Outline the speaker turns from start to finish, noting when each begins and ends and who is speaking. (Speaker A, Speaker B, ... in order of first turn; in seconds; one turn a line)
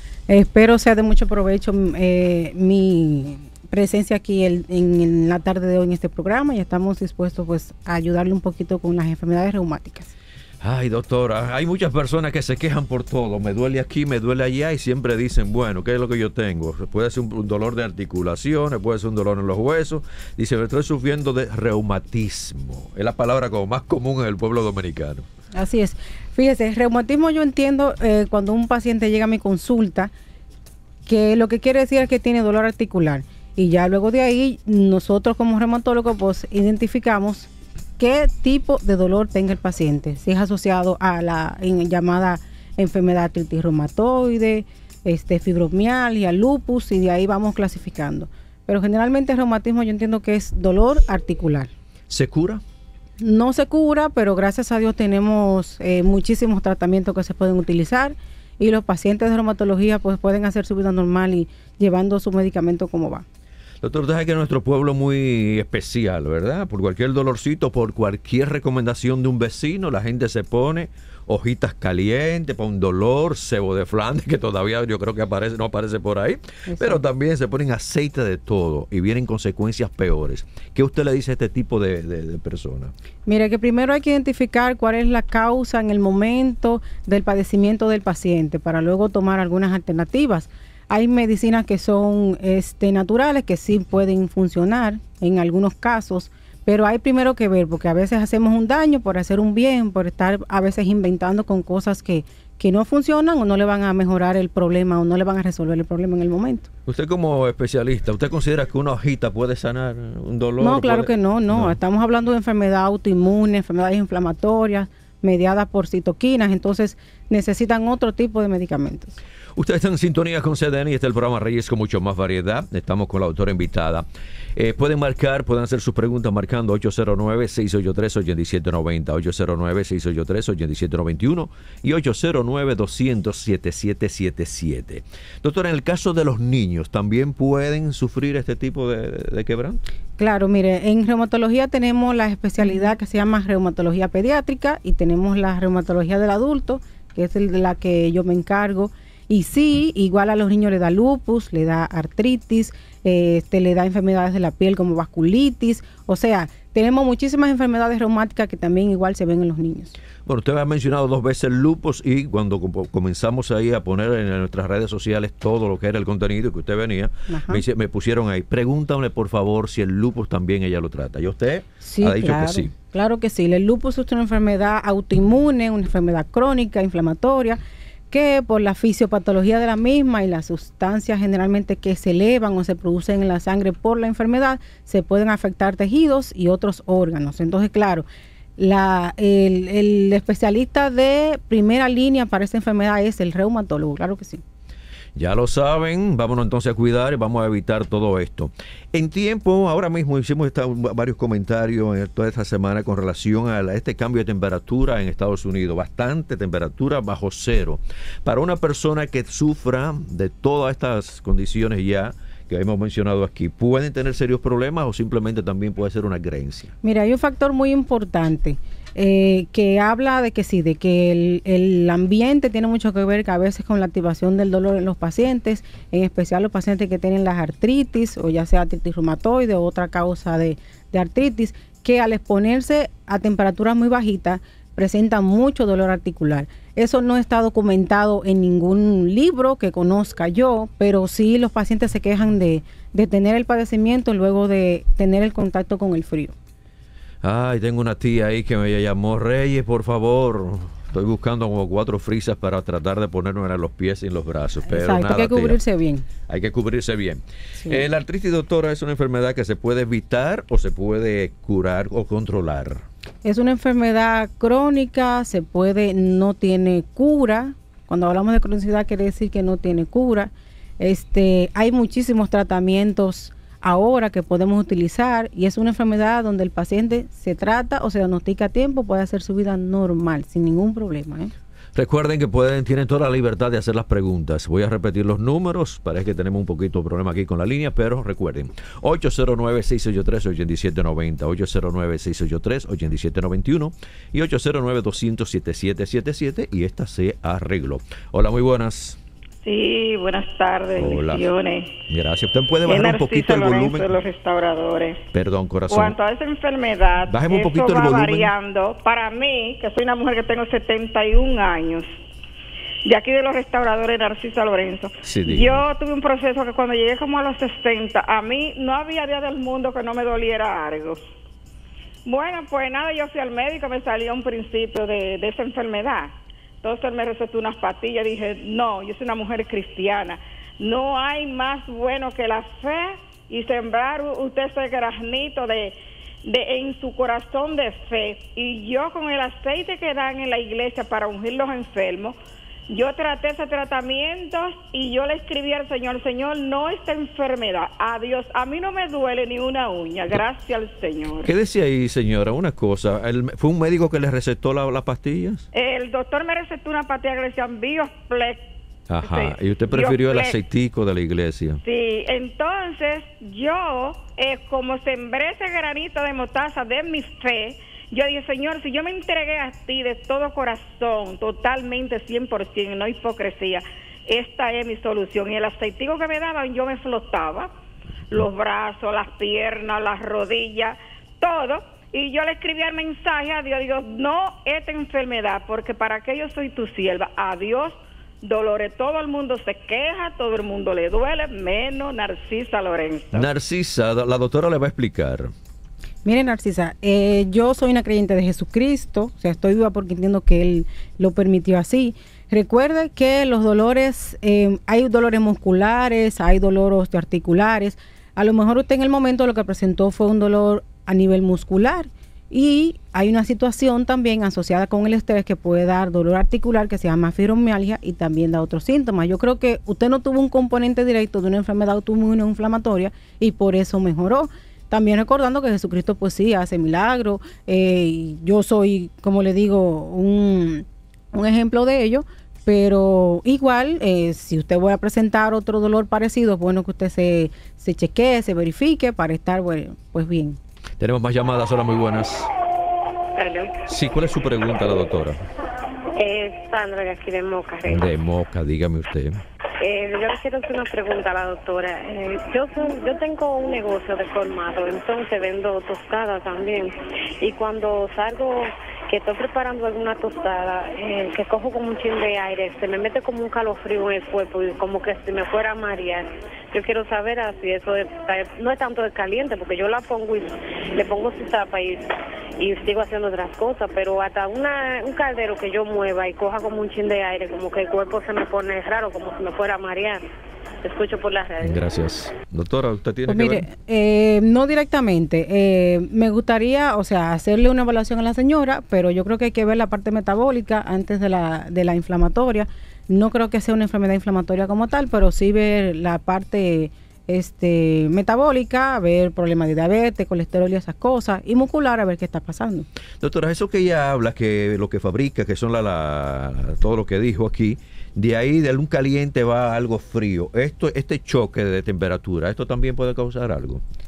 Speaker A: 0.3-10.1
Speaker B: 10.6-25.2
Speaker A: 25.5-30.1
Speaker A: 31.1-51.7
Speaker B: 52.1-52.6
Speaker A: 53.2-63.2
Speaker B: 63.8-82.9
Speaker A: 76.7-77.0
Speaker A: 83.3-106.7
Speaker B: 106.8-111.8
Speaker A: 110.6-119.2
Speaker B: 119.5-139.8
Speaker A: 140.2-159.9
Speaker B: 160.2-172.7
Speaker A: 167.3-167.6
Speaker A: 171.8-188.0
Speaker A: 188.6-194.4
Speaker B: 195.2-216.7
Speaker A: 216.8-246.3
Speaker B: 247.2-255.6
Speaker A: 254.7-256.1
Speaker B: 256.3-262.8
Speaker A: 263.2-281.3
Speaker B: 281.7-299.0
Speaker C: 299.4-301.7
Speaker B: 300.8-301.3
Speaker B: 301.9-303.9
Speaker C: 302.6-305.0
Speaker B: 305.1-306.0
Speaker C: 305.7-312.0
Speaker B: 307.0-308.3
Speaker C: 312.8-321.0
Speaker B: 315.0-315.6
Speaker C: 322.0-342.2
Speaker C: 342.7-351.3
Speaker B: 351.2-355.4
Speaker C: 355.5-358.5
Speaker B: 358.9-361.6
Speaker C: 359.0-360.4
Speaker C: 361.6-377.5
Speaker C: 378.1-393.3
Speaker B: 393.1-395.3
Speaker A: 396.0-440.4
Speaker B: 440.8-442.3
Speaker D: 443.1-443.5
Speaker B: 443.6-445.2
Speaker D: 445.9-447.9
Speaker B: 447.7-449.2
Speaker D: 449.6-471.8
Speaker D: 472.4-480.0
Speaker D: 480.6-481.6
Speaker B: 481.4-483.5
Speaker A: 483.1-502.7
Speaker B: 503.0-513.6